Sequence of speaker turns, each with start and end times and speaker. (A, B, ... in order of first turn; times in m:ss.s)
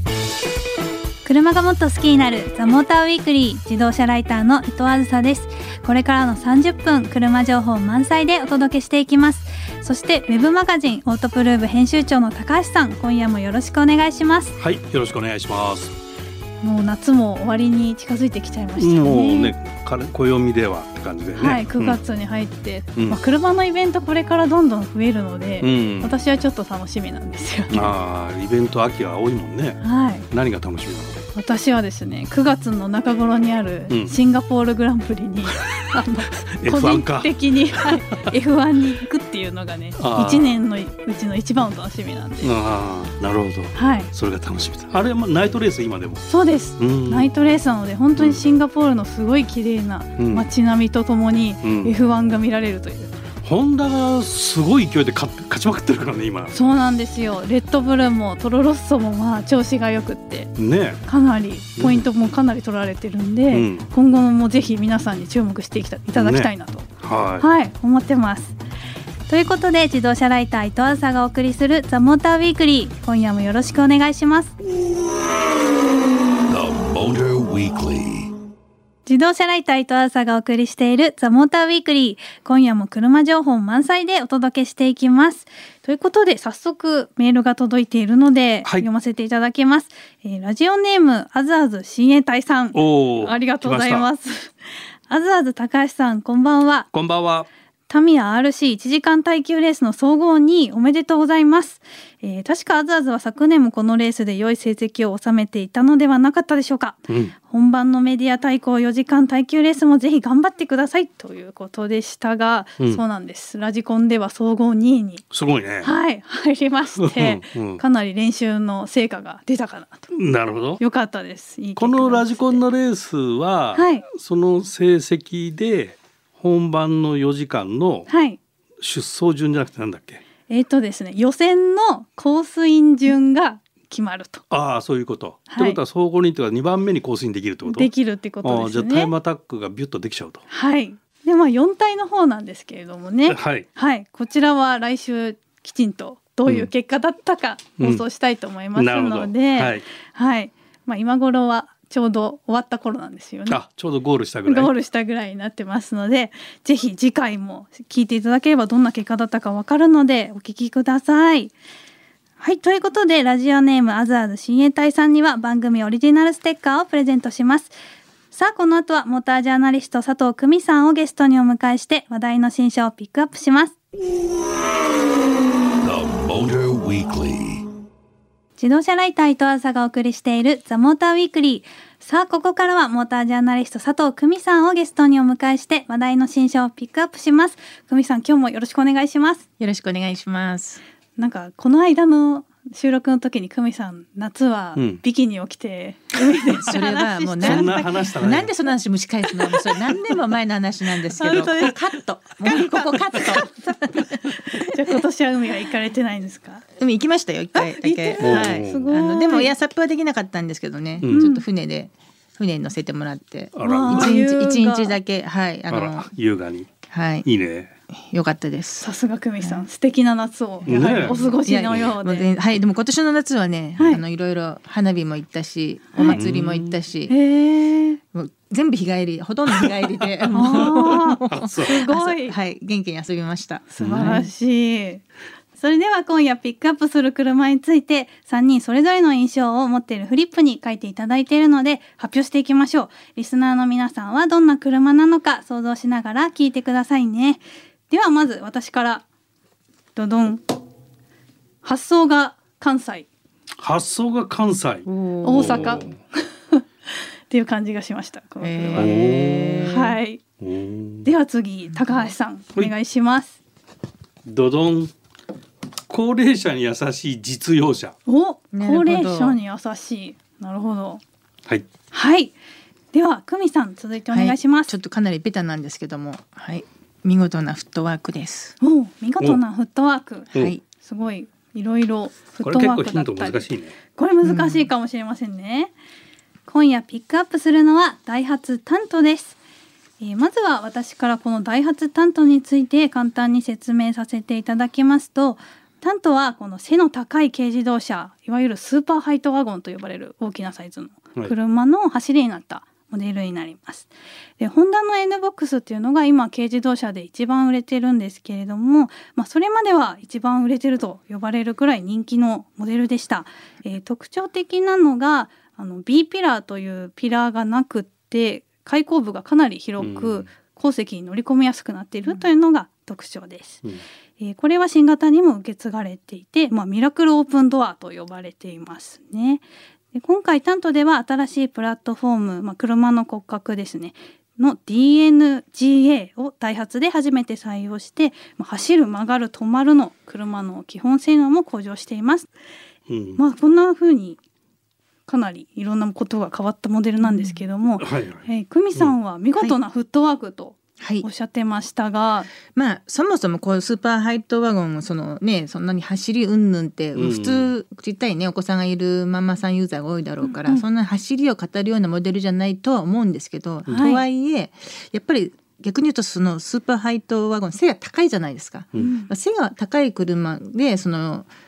0:01.2-0:14.6 A
0:14.6-0:16.0 B
0:16.6-0:19.5 A
0:18.8-0:22.0 B
0:21.4-0:27.9 A
0:25.6-0:26.1 B
0:27.7-0:31.3 B
0:29.8-0:30.2 A
0:31.3-0:42.5 A
0:33.9-0:34.2 B
0:36.5-0:38.0 B
0:40.0-0:40.6 B
0:42.4-0:46.3 B
0:43.8-0:44.1 A
0:46.3-0:53.1 A
0:46.8-0:47.3 B
0:48.2-0:48.4 B
0:50.2-0:50.5 B
0:51.6-0:52.0 B
0:53.4-0:56.6 B
0:56.5-1:00.5 A
1:00.6-1:01.0 B
1:01.1-1:06.9 A
1:01.8-1:02.1 B
1:03.5-1:03.9 B
1:06.1-1:07.5 B
1:07.4-1:08.6 A
1:09.3-1:14.5 A
1:16.5-1:17.2 B
1:17.1-1:18.3 C
1:19.1-1:34.6 A
1:32.7-1:34.1 B
1:35.1-1:36.9 A
1:36.9-1:37.5 B
1:37.9-1:55.2 A
1:47.1-1:47.4 B
1:55.3-1:55.9 B
1:55.8-2:00.1 A
1:57.0-1:57.8 B
2:00.1-2:00.8 B
2:00.8-2:02.6 A
2:01.8-2:08.1 B
2:03.8-2:04.1 A
2:08.1-2:08.4 A
2:08.8-2:10.2 B
2:10.5-2:14.4 A
2:14.5-2:17.9 B
2:15.5-2:15.8 A
2:17.6-2:19.1 A
2:18.4-2:20.4 B
2:20.5-2:33.6 A
2:23.3-2:23.7 B
2:27.8-2:28.0 B
2:28.8-2:29.8 B
2:33.5-2:34.7 B
2:34.5-2:41.5 A
2:42.4-2:47.7 A
2:48.3-2:53.8 A
2:55.9-2:56.5 B
2:56.5-2:57.6 C
2:58.6-3:09.4 A
3:09.6-3:10.8 D
3:11.2-3:18.0 A
3:14.8-3:15.0 B
3:16.3-3:24.2 D
3:17.4-3:18.5 B
3:19.4-3:19.7 A
3:21.1-3:21.9 A
3:22.4-3:26.6 A
3:26.8-3:36.1 D
3:27.6-3:29.5 A
3:28.2-3:28.9 B
3:31.1-3:31.4 A
3:33.6-3:34.2 B
3:33.6-3:35.0 A
3:35.7-3:36.7 B
3:36.9-3:37.3 D
3:37.2-3:37.7 B
3:37.9-3:38.9 D
3:38.8-3:42.3 A
3:40.6-3:47.2 D
3:40.7-3:41.9 B
3:46.0-3:46.2 A
3:46.1-3:46.8 B
3:47.1-3:48.0 A
3:48.1-3:54.3 D
3:49.6-3:51.8 B
3:50.3-3:52.4 A
3:53.7-3:55.0 A
3:53.8-3:54.2 B
3:55.6-4:09.0 A
4:10.0-4:10.4 A
4:11.6-4:13.1 A
4:13.6-4:16.0 B
4:14.9-4:15.8 D
4:15.2-4:16.0 A
4:16.5-4:19.0 A
4:18.4-4:20.0 D
4:18.8-4:19.7 B
4:19.7-4:20.2 A
4:20.4-4:21.1 B
4:21.0-4:23.4 A
4:21.7-4:22.1 D
4:24.2-4:24.9 B
4:25.9-4:28.0 B
4:28.1-4:31.0 A
4:28.5-4:29.4 D
4:31.9-4:32.4 A
4:32.9-4:34.7 A
4:34.1-4:38.6 D
4:38.6-4:45.7 A
4:40.3-4:40.6 D
4:42.4-4:43.8 B
4:44.2-4:44.7 D
4:46.5-4:49.4 A
4:50.0-5:23.6 A
5:19.8-5:20.3 B
5:24.2-5:42.3 A
5:42.9-5:43.2 B
5:43.2-5:44.2 A
5:45.1-5:52.3 A
5:47.0-5:47.4 D
5:47.8-5:48.9 B
5:50.8-5:51.1 D
5:52.5-6:11.3 D
5:57.0-5:57.5 B
6:00.2-6:00.6 A
6:03.7-6:04.0 A
6:08.8-6:09.1 A